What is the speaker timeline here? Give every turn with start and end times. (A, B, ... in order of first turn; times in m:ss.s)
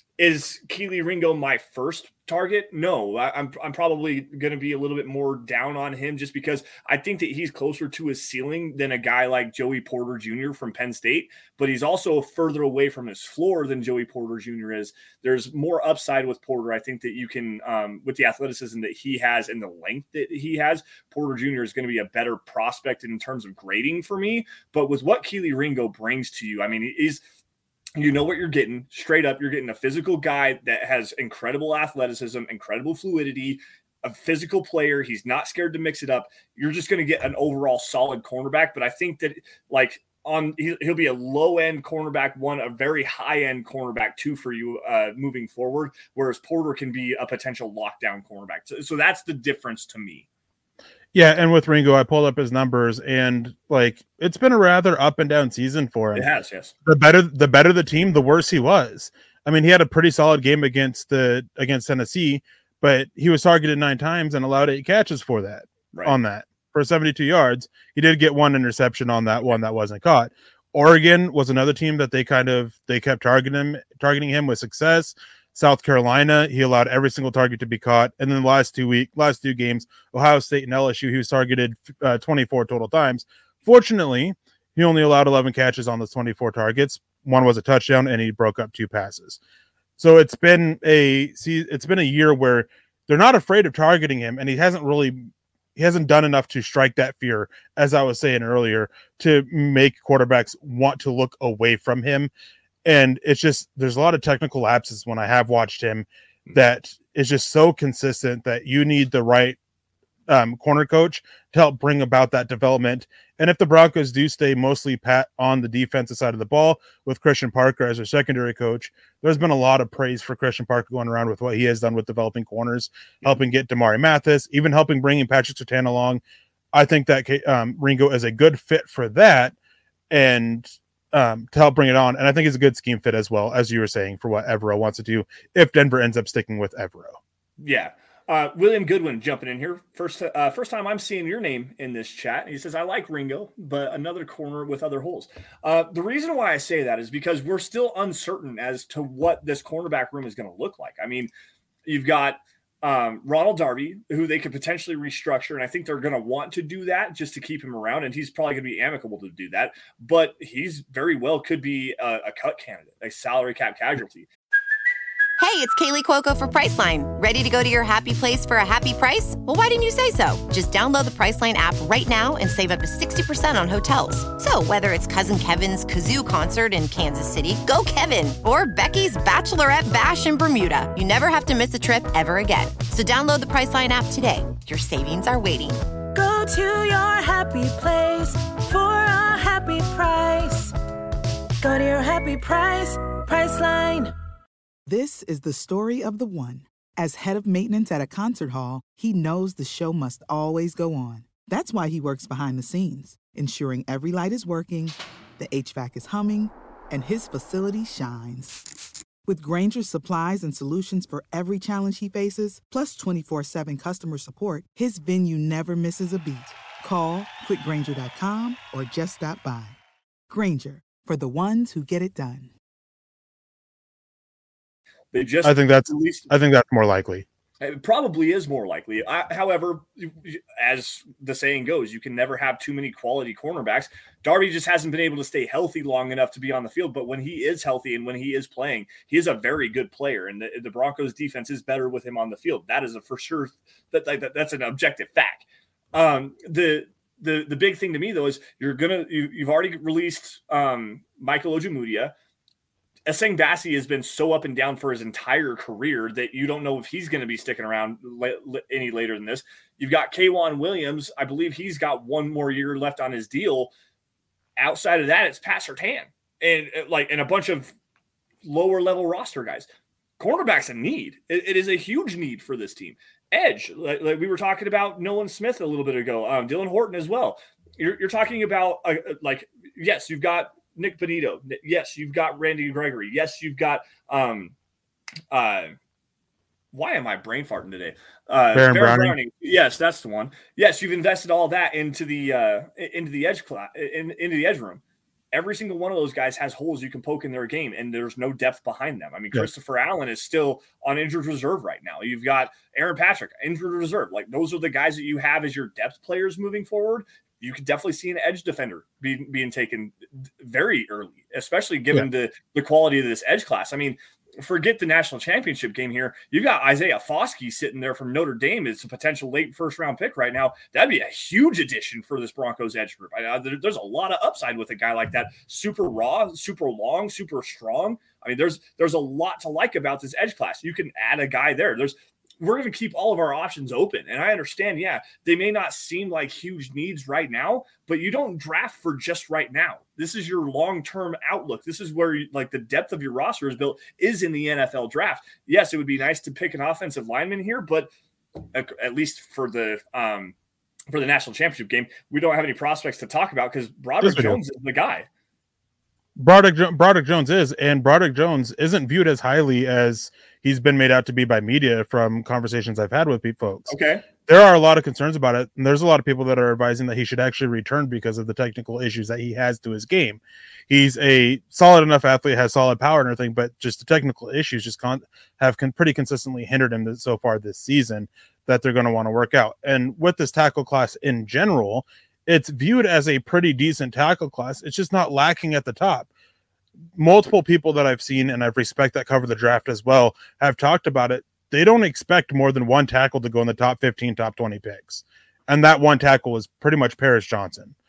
0:00.2-0:27.2 A
0:28.0-0:50.3 A
0:51.1-0:56.3 B
0:56.1-0:56.7 A
0:56.8-1:29.4 B
1:30.0-1:42.3 B
1:42.8-1:49.6 B
1:50.3-2:06.2 B
2:06.7-2:09.5 B
2:10.1-2:17.2 B
2:17.6-2:31.3 A
2:31.8-2:44.3 A
2:45.4-3:05.8 C
3:06.1-3:10.7 D
3:11.6-3:14.1 D
3:14.8-3:28.7 E
3:29.2-3:39.8 E
3:40.3-3:42.5 E
3:45.1-3:46.3 A
3:45.4-3:47.2 B
3:47.6-4:12.1 A
4:13.0-4:23.7 A
4:24.6-4:27.7 A
4:28.4-4:29.7 A
4:30.2-4:44.5 A
4:45.3-4:45.7 A
4:46.7-4:54.8 A
4:48.5-4:49.2 B
4:55.3-5:47.9 A
5:48.5-5:50.3 A
5:50.9-5:55.1 A
5:54.0-5:54.4 B
5:56.2-6:03.7 B
6:03.7-6:04.0 A
6:04.3-6:26.1 B
6:27.0-6:37.7 B